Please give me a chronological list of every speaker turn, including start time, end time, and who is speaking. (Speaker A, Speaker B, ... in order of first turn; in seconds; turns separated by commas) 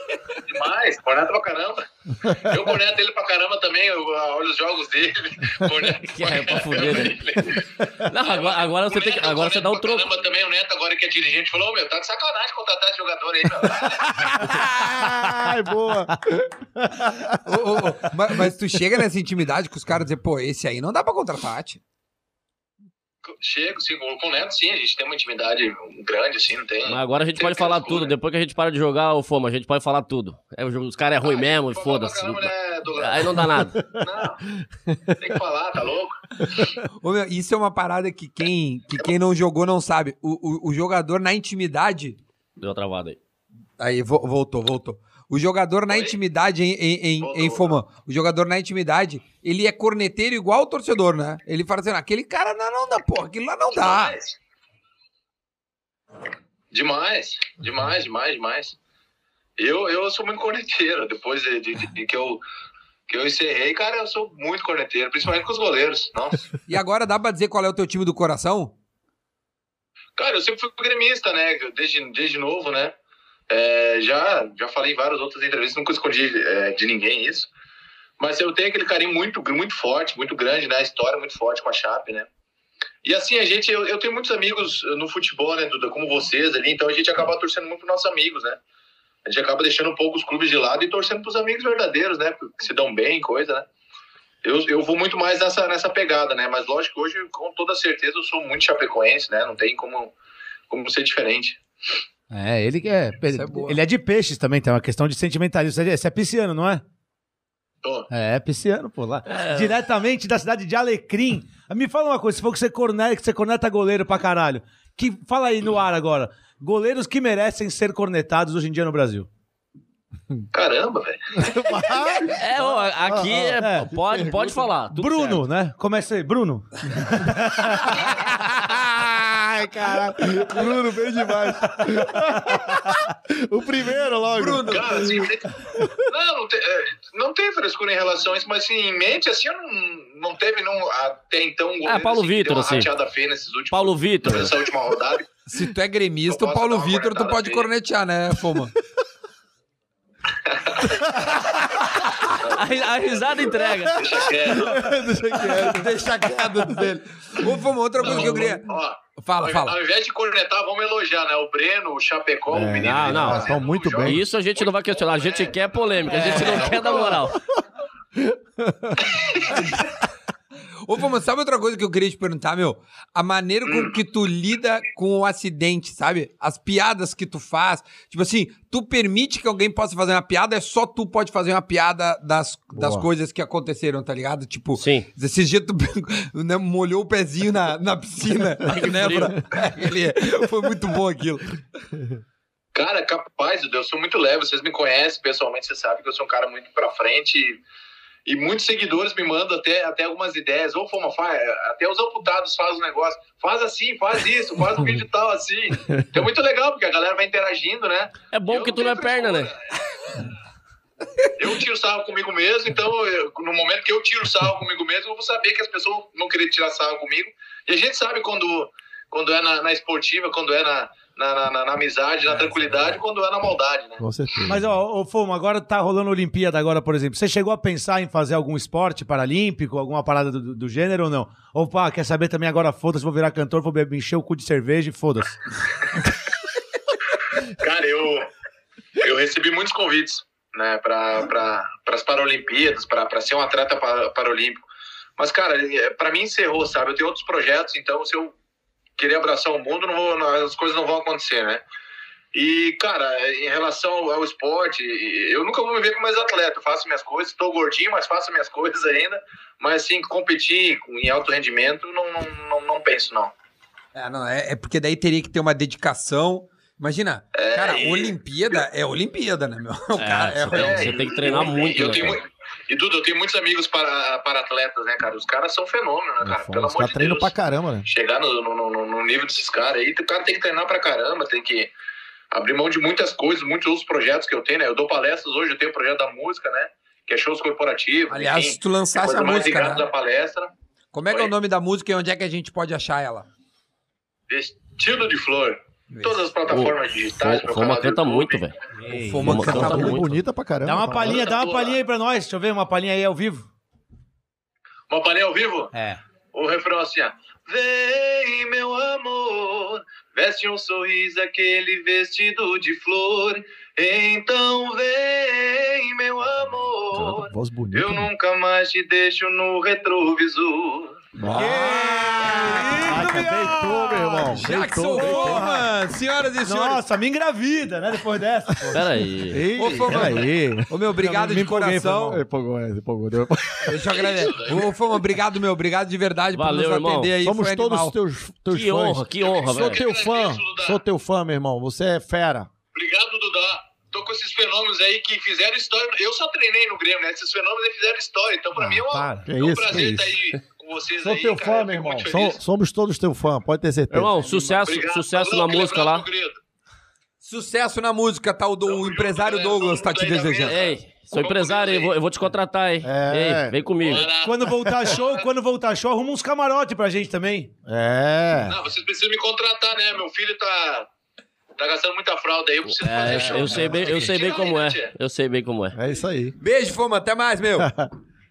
Speaker A: 0.3-14.3, Speaker B: 6.0-10.1, Speaker C: 14.2-15.6, Speaker D: 14.3-17.4, Speaker C: 16.1-16.4, Speaker E: 17.4-21.8, Speaker A: 23.2-28.1, Speaker B: 26.9-34.0, Speaker A: 31.2-34.4, Speaker A: 35.2-36.8, Speaker E: 37.0-42.2, Speaker B: 42.6-43.2, Speaker E: 43.8-54.2, Speaker A: 45.9-46.2, Speaker A: 47.2-47.8, Speaker A: 53.7-54.4, Speaker A: 56.7-58.8, Speaker A: 59.6-62.4, Speaker A: 63.1-66.5, Speaker E: 66.7-68.7, Speaker A: 70.2-73.0, Speaker A: 73.5-77.5, Speaker A: 78.2-82.3, Speaker A: 83.0-88.6, Speaker A: 89.3-93.7, Speaker A: 94.4-100.1, Speaker A: 100.7-102.0, Speaker C: 102.3-106.8, Speaker E: 103.3-103.8, Speaker A: 107.8-108.1, Speaker C: 108.1-119.3, Speaker B: 109.3-109.8, Speaker A: 120.5-122.0, Speaker D: 121.4-124.7, Speaker B: 122.3-125.4, Speaker C: 123.6-123.9, Speaker C: 124.9-128.0, Speaker E: 128.0-129.9, Speaker D: 129.5-136.0, Speaker C: 132.0-132.7, Speaker E: 134.3-135.1, Speaker A: 134.7-135.5, Speaker A: 136.1-145.3, Speaker B: 141.9-142.9, Speaker B: 143.7-144.6, Speaker E: 145.5-148.7, Speaker A: 146.3-147.7, Speaker A: 150.4-151.2, Speaker E: 151.5-152.1, Speaker A: 152.3-153.3, Speaker B: 152.5-154.0, Speaker D: 153.6-157.5, Speaker A: 153.9-155.0, Speaker E: 155.4-159.8, Speaker A: 158.0-167.1, Speaker D: 158.1-158.4, Speaker D: 162.5-164.3, Speaker B: 162.8-163.5, Speaker B: 164.0-167.4, Speaker D: 166.4-167.3, Speaker D: 168.2-169.6, Speaker A: 169.1-169.7, Speaker E: 170.8-191.6, Speaker A: 173.7-174.0, Speaker D: 182.8-183.1, Speaker B: 184.8-185.1, Speaker B: 188.7-189.4, Speaker A: 192.7-197.6, Speaker A: 198.2-210.3, Speaker B: 208.3-209.5, Speaker A: 211.4-224.0, Speaker D: 224.0-224.7, Speaker C: 224.5-235.4, Speaker A: 237.2-238.3, Speaker A: 239.0-244.6, Speaker A: 245.2-248.4, Speaker A: 249.0-251.6, Speaker A: 252.3-263.3, Speaker E: 263.9-271.0, Speaker A: 267.3-268.6, Speaker B: 270.0-272.2, Speaker A: 270.5-277.3, Speaker D: 276.2-277.9, Speaker A: 277.9-281.7, Speaker A: 282.3-290.5, Speaker E: 288.1-289.9, Speaker E: 290.9-293.3, Speaker A: 294.3-298.5, Speaker E: 295.9-296.2, Speaker B: 296.5-298.5, Speaker C: 298.8-299.9, Speaker E: 298.9-300.2, Speaker B: 299.2-300.1, Speaker D: 299.2-301.2, Speaker C: 300.6-303.5, Speaker A: 301.0-301.8, Speaker A: 304.9-305.7, Speaker C: 305.7-306.0, Speaker A: 306.3-321.1, Speaker D: 316.9-318.1, Speaker D: 321.2-325.6, Speaker C: 321.2-325.7, Speaker E: 321.3-321.6, Speaker E: 322.2-323.6, Speaker E: 324.3-326.8, Speaker C: 326.4-328.9, Speaker B: 328.7-329.5, Speaker D: 329.3-330.7, Speaker E: 329.6-332.2, Speaker C: 329.9-332.2, Speaker D: 332.1-333.8, Speaker E: 333.6-337.9, Speaker A: 333.9-334.8, Speaker B: 336.3-337.1, Speaker D: 337.2-342.5, Speaker B: 338.5-339.9, Speaker A: 339.2-340.8, Speaker A: 342.7-352.4, Speaker C: 348.6-349.3, Speaker D: 349.3-350.2, Speaker D: 351.0-354.1, Speaker B: 353.9-356.1, Speaker E: 354.2-354.8, Speaker A: 354.6-356.4, Speaker E: 357.2-360.6, Speaker A: 358.7-361.9, Speaker B: 360.4-364.1, Speaker D: 362.8-363.6, Speaker A: 363.8-365.2, Speaker C: 364.2-367.5, Speaker D: 367.7-368.6, Speaker A: 368.4-370.9, Speaker A: 371.6-374.9, Speaker B: 372.7-375.8, Speaker D: 373.5-373.8, Speaker C: 373.6-373.9, Speaker D: 375.8-376.4, Speaker E: 376.4-377.7, Speaker D: 377.6-377.9